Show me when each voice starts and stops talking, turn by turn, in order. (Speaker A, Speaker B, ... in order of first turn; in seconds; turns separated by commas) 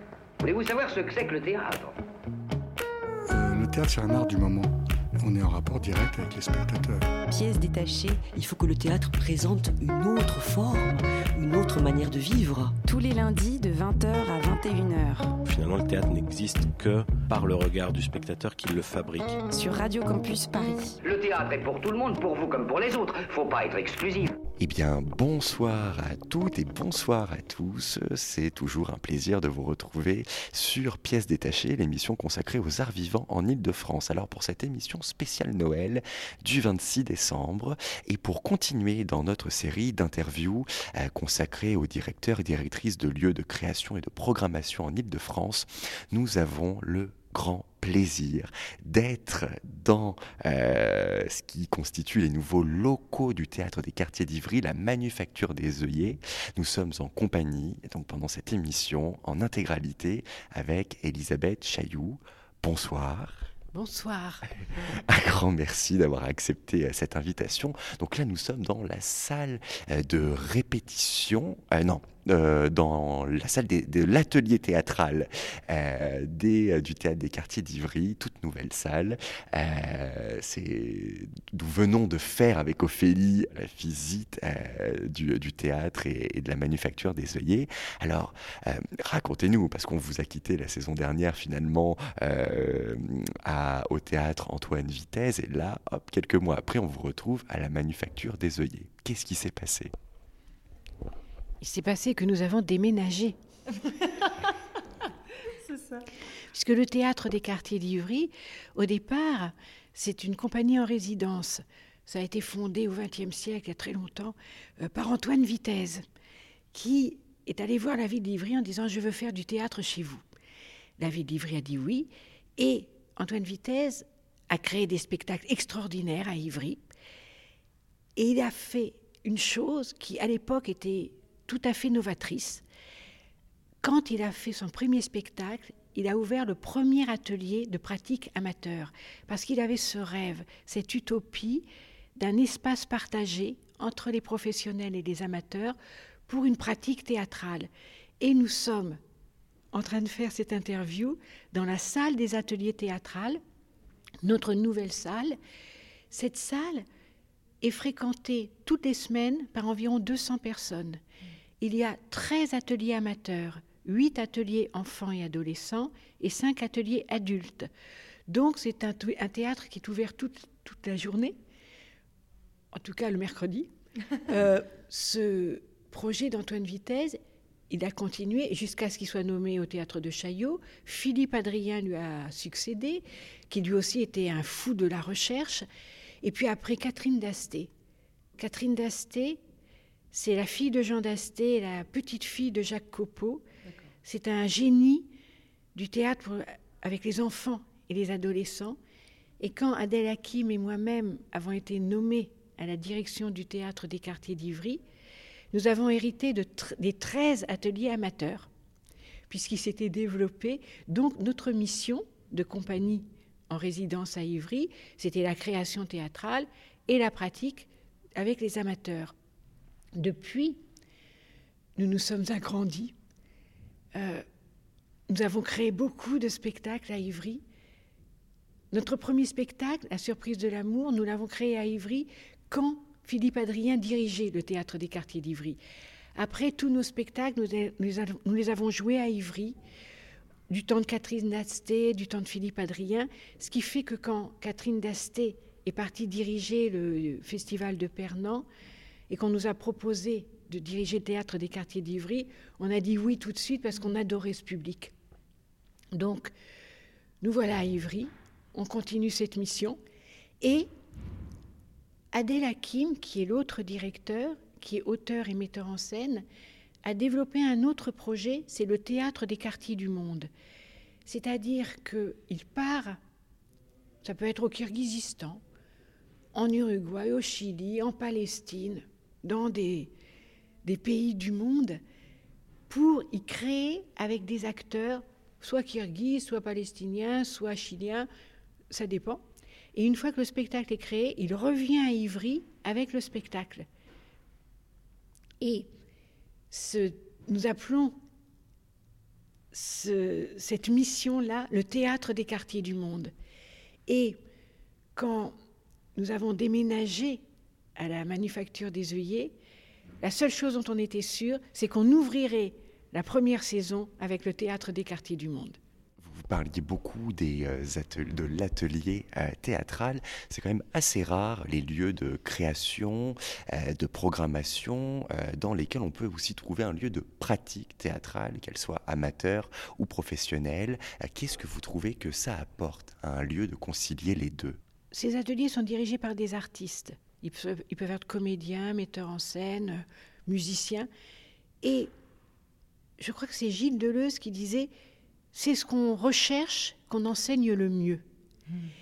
Speaker A: 0.4-2.0, Speaker B: 3.3-7.1, Speaker C: 7.3-8.1, Speaker D: 7.9-12.8, Speaker C: 12.8-15.4, Speaker E: 15.4-19.4, Speaker C: 19.5-21.0, Speaker A: 21.0-24.4, Speaker F: 24.6-63.5, Speaker G: 63.7-64.5, Speaker F: 64.9-99.9, Speaker G: 101.6-103.4, Speaker G: 106.5-116.0, Speaker G: 116.7-120.2, Speaker G: 121.0-126.9, Speaker G: 128.2-132.6, Speaker G: 133.8-149.0, Speaker G: 149.7-153.4, Speaker G: 154.2-155.4, Speaker G: 156.1-156.9, Speaker G: 157.6-161.0, Speaker G: 161.6-167.7, Speaker G: 168.3-171.4, Speaker G: 172.7-177.2, Speaker G: 177.7-185.7, Speaker G: 186.2-187.7, Speaker G: 188.4-189.4, Speaker G: 190.1-193.4, Speaker G: 194.1-195.1, Speaker G: 195.8-198.8, Speaker G: 199.4-204.8, Speaker G: 205.5-208.5, Speaker G: 209.3-219.2, Speaker G: 220.0-220.6, Speaker G: 221.8-222.9, Speaker G: 223.9-224.2, Speaker G: 225.1-227.4, Speaker G: 228.7-235.6, Speaker G: 236.2-239.6, Speaker G: 240.5-248.5, Speaker G: 249.1-254.9, Speaker G: 255.9-256.3, Speaker G: 257.2-259.8, Speaker G: 260.4-260.7, Speaker G: 262.1-266.2, Speaker G: 266.9-270.3, Speaker G: 271.1-273.0, Speaker G: 274.0-275.4, Speaker G: 276.3-279.9, Speaker G: 280.6-281.8, Speaker G: 282.7-288.1, Speaker G: 288.7-293.7, Speaker G: 295.4-295.7, Speaker G: 296.5-298.0, Speaker G: 299.5-303.1, Speaker G: 303.9-304.2, Speaker G: 305.0-305.4, Speaker G: 306.0-307.2, Speaker G: 307.8-309.4, Speaker G: 310.0-315.6, Speaker F: 316.0-334.6, Speaker G: 334.9-340.9, Speaker G: 341.6-341.9, Speaker G: 343.0-344.7, Speaker G: 345.3-348.0